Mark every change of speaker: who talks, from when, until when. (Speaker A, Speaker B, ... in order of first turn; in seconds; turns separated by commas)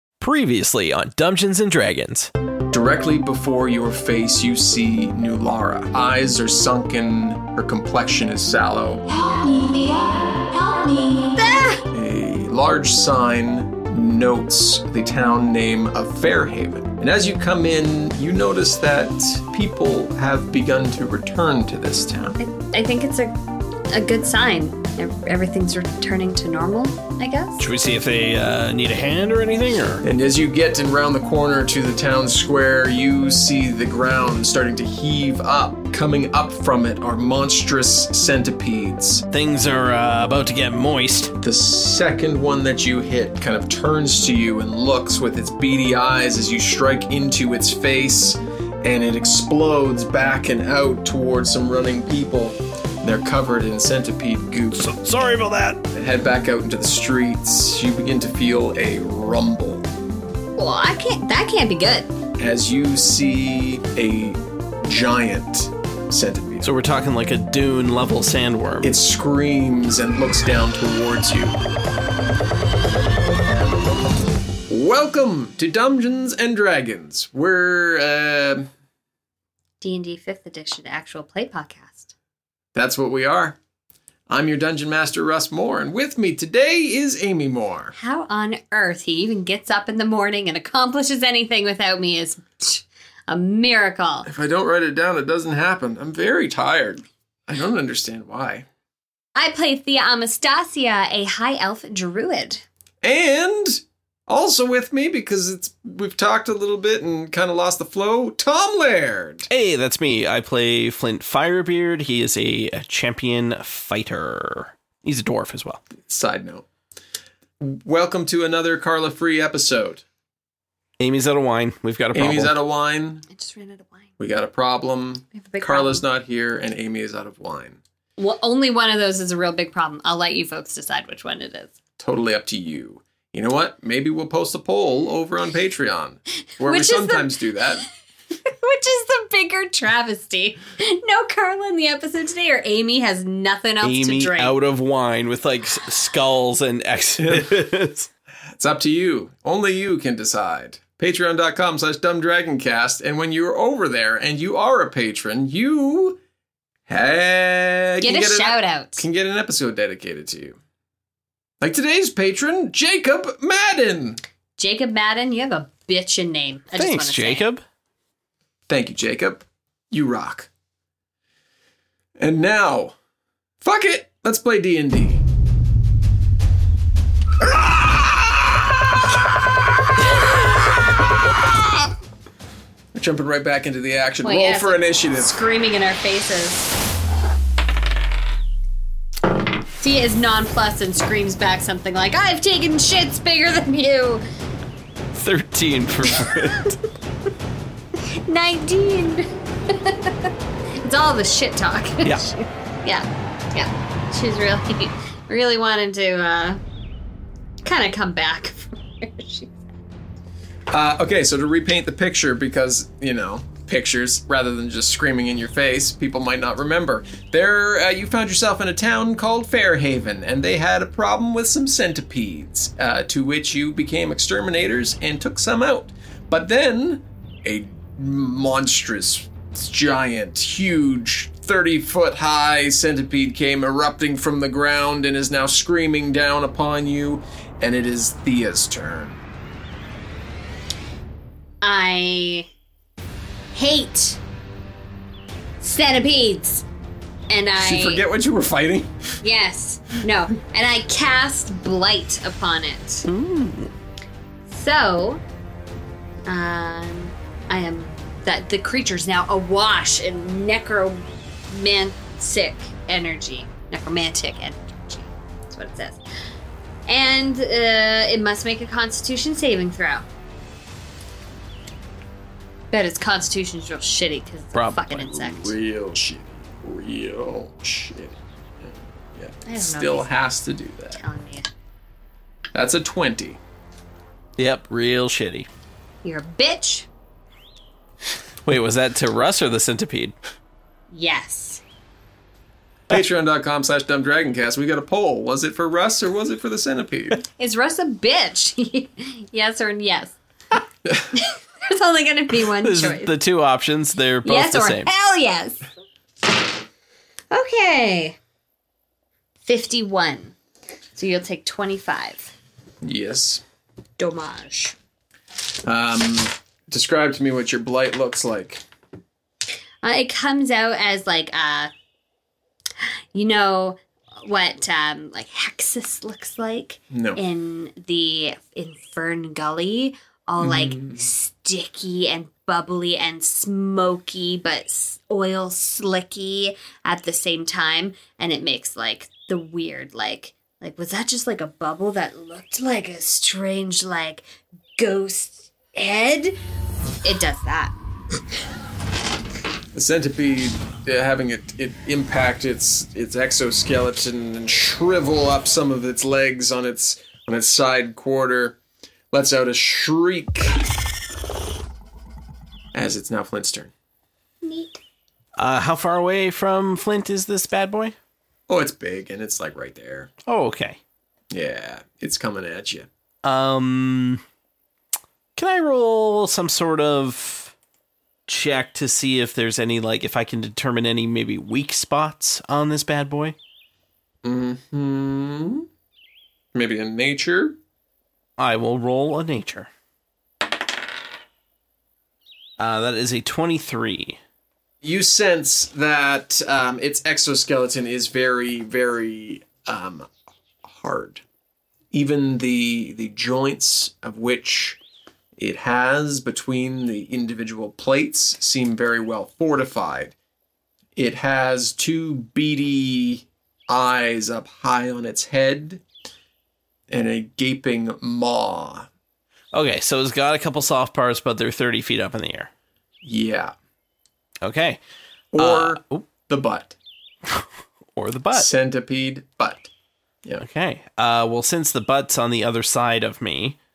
Speaker A: 0.2-2.3, Speaker B: 2.7-9.1, Speaker C: 9.3-11.3, Speaker D: 11.3-11.8, Speaker B: 11.9-22.3, Speaker D: 22.4-23.3, Speaker D: 23.9-27.7, Speaker A: 27.6-30.0, Speaker B: 30.0-39.2, Speaker A: 39.3-41.3, Speaker B: 41.4-54.9, Speaker A: 54.7-55.8, Speaker B: 55.9-59.9, Speaker D: 60.6-62.1, Speaker B: 62.4-66.7, Speaker A: 66.6-68.9, Speaker B: 68.8-71.6, Speaker B: 74.7-78.7, Speaker D: 79.8-82.1, Speaker B: 82.7-83.6, Speaker B: 84.3-87.9, Speaker D: 87.9-94.3, Speaker B: 94.2-98.7, Speaker D: 99.3-102.6, Speaker B: 103.0-109.5, Speaker A: 109.5-115.8, Speaker B: 116.0-116.7, Speaker B: 117.6-120.0, Speaker A: 121.0-122.5, Speaker B: 122.1-123.2, Speaker D: 123.3-124.1, Speaker B: 124.2-127.8, Speaker D: 125.3-126.0, Speaker D: 128.2-131.7, Speaker B: 132.0-137.8, Speaker D: 136.6-137.3, Speaker D: 138.4-144.5, Speaker A: 143.8-148.1, Speaker B: 147.2-147.6, Speaker B: 148.5-156.2, Speaker B: 156.9-160.6, Speaker D: 158.0-159.0, Speaker B: 161.6-164.2, Speaker D: 164.6-167.4, Speaker A: 166.7-167.6, Speaker B: 168.7-170.5, Speaker B: 172.2-172.9, Speaker B: 173.6-175.2, Speaker B: 182.9-185.4, Speaker D: 184.2-186.8, Speaker D: 189.8-194.2, Speaker A: 195.1-196.8, Speaker D: 198.1-206.6, Speaker D: 207.6-209.6, Speaker B: 210.7-239.2, Speaker D: 241.6-242.5, Speaker D: 243.5-244.2, Speaker D: 245.6-246.7, Speaker D: 247.3-248.0, Speaker B: 247.6-249.2, Speaker D: 249.2-253.1, Speaker A: 253.1-253.7, Speaker D: 254.5-255.2, Speaker D: 256.2-266.0, Speaker D: 266.9-270.0, Speaker D: 272.7-275.5, Speaker A: 274.5-275.1, Speaker B: 275.1-281.0, Speaker D: 279.4-280.1, Speaker D: 281.0-281.5, Speaker B: 282.5-283.4, Speaker A: 284.4-285.5, Speaker D: 286.0-286.9, Speaker A: 288.4-290.1, Speaker D: 290.9-291.6, Speaker B: 292.9-297.2, Speaker D: 297.4-300.2, Speaker D: 301.1-303.1, Speaker A: 302.6-304.9, Speaker D: 304.2-305.6, Speaker D: 307.3-308.2, Speaker D: 309.4-310.3, Speaker D: 310.9-312.3, Speaker B: 312.8-313.4, Speaker D: 314.0-314.7, Speaker B: 315.6-318.6, Speaker D: 319.8-321.7, Speaker D: 322.8-344.2, Speaker B: 326.9-327.2, Speaker B: 330.4-331.0, Speaker D: 344.8-346.4, Speaker D: 347.0-347.7, Speaker B: 349.7-358.6, Speaker B: 359.1-360.6, Speaker B: 362.7-363.7, Speaker D: 364.4-364.8, Speaker A: 365.4-367.9, Speaker B: 368.5-370.1, Speaker A: 370.2-370.8, Speaker B: 371.3-372.9, Speaker A: 373.2-374.2, Speaker A: 375.4-377.5, Speaker A: 378.3-383.4, Speaker B: 384.2-385.7, Speaker B: 386.5-387.6, Speaker A: 388.4-389.7, Speaker A: 392.6-394.2, Speaker B: 394.8-400.1, Speaker B: 400.6-401.2, Speaker B: 401.9-404.8, Speaker B: 405.4-410.1, Speaker B: 410.9-415.8, Speaker B: 416.9-418.9, Speaker A: 419.5-422.5, Speaker B: 423.0-423.5, Speaker A: 424.4-424.8, Speaker B: 425.3-426.7, Speaker A: 425.4-426.1, Speaker A: 427.3-428.5, Speaker B: 428.3-429.7, Speaker A: 430.4-433.6